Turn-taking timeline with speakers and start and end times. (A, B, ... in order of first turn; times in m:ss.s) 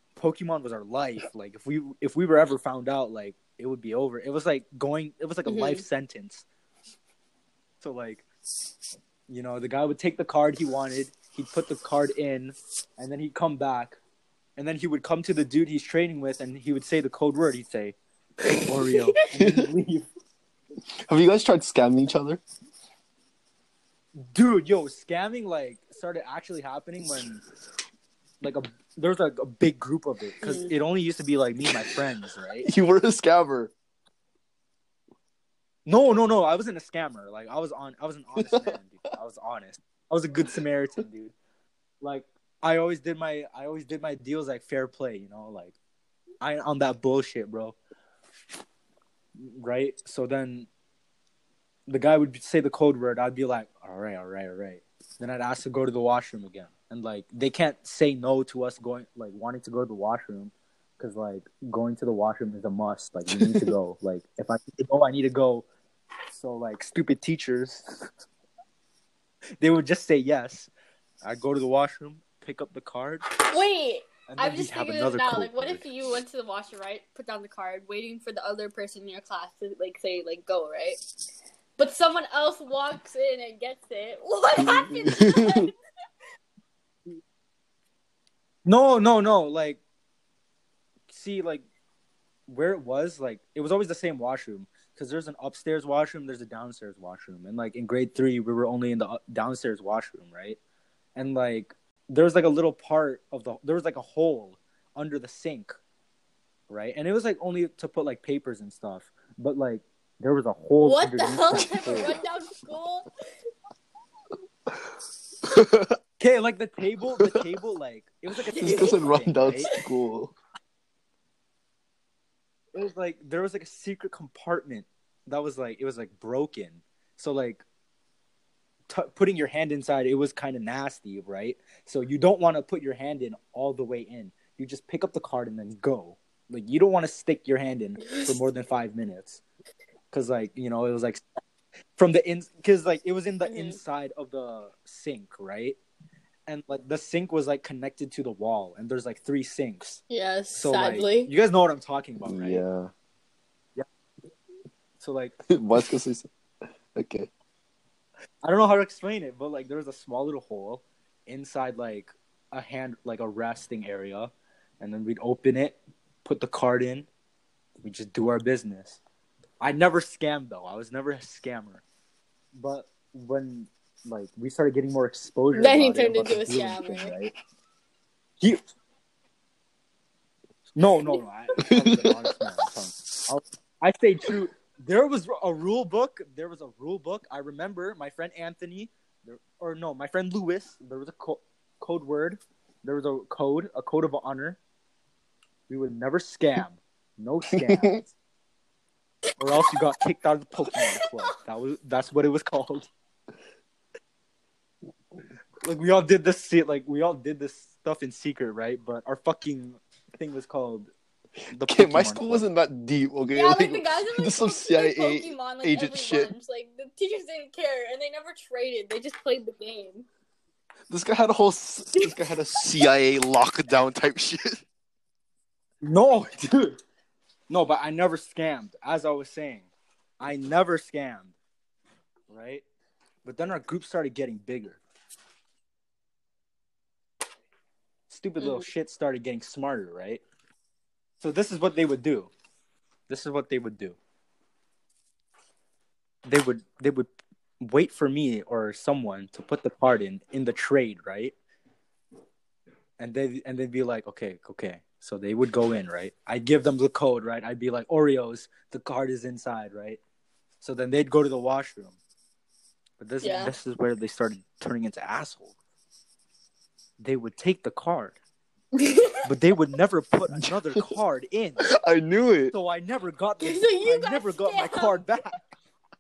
0:00.2-0:06.4 A
0:05.4-0:05.8 B
0:07.8-0:08.2 A
0:09.3-0:14.0 A
0:14.6-0:18.0 A
0:18.7-0:20.1 A
0:19.4-0:19.7 C
0:21.1-0:22.4 C
0:24.2-0:27.4 A
0:28.4-0:32.7 A
0:30.4-0:30.7 B
0:32.6-0:33.7 C
0:35.9-0:41.4 A
0:38.4-0:38.7 C
0:42.0-0:45.8 A
0:46.4-0:47.8 A
0:49.4-0:50.7 A
0:51.9-1:05.6 A
1:03.3-1:03.7 C
1:06.3-1:08.1 A
1:09.6-1:10.7 A
1:11.2-1:13.3 A
1:13.5-1:21.0 B
1:14.3-1:15.9 A
1:21.8-1:25.7 B
1:24.6-1:25.7 C
1:28.6-1:29.8 A
1:31.1-1:31.6 A
1:32.5-1:40.6 A
1:41.2-1:45.8 A
1:46.7-1:52.2 A
1:50.8-1:53.1 B
1:51.6-1:52.2 C
1:55.5-1:56.0 C
1:56.2-1:59.7 A
1:58.6-1:59.0 B
1:58.6-2:00.3 C
2:02.8-2:07.6 A
2:08.9-2:19.4 A
2:18.1-2:18.4 B
2:20.1-2:21.4 A
2:22.0-2:25.8 A
2:23.4-2:23.8 B
2:26.5-2:30.0 A
2:30.1-2:31.3 B
2:30.5-2:32.6 A
2:32.2-2:32.9 C
2:35.0-2:35.4 A
2:35.5-2:36.3 C
2:37.0-2:37.3 C
2:38.4-2:47.1 A
2:47.8-2:49.0 A
2:49.6-2:51.8 A
2:52.5-2:57.3 A
2:55.5-2:57.2 B
3:00.8-3:14.6 A
3:01.7-3:02.4 C
3:15.7-3:18.1 A
3:17.6-3:18.0 C
3:19.4-3:22.9 A
3:25.6-3:30.9 A
3:31.5-3:32.5 A
3:31.7-3:36.3 C
3:33.4-3:40.1 B
3:40.9-3:44.6 C
3:45.8-3:46.8 A
3:47.5-3:49.7 A
3:50.2-3:51.4 A
3:52.3-3:52.6 A
3:53.2-3:54.8 A
3:58.1-4:00.2 A
3:58.4-3:58.6 B
4:01.2-4:02.3 A
4:03.1-4:04.0 A
4:06.2-4:07.1 A
4:07.6-4:11.3 A
4:13.0-4:20.0 A
4:20.6-4:22.0 A
4:23.0-4:25.5 A
4:23.2-4:23.5 B
4:27.0-4:28.2 A
4:28.7-4:29.2 B
4:29.2-4:31.7 A
4:31.7-4:32.5 C
4:32.5-4:35.5 A
4:33.4-4:35.1 B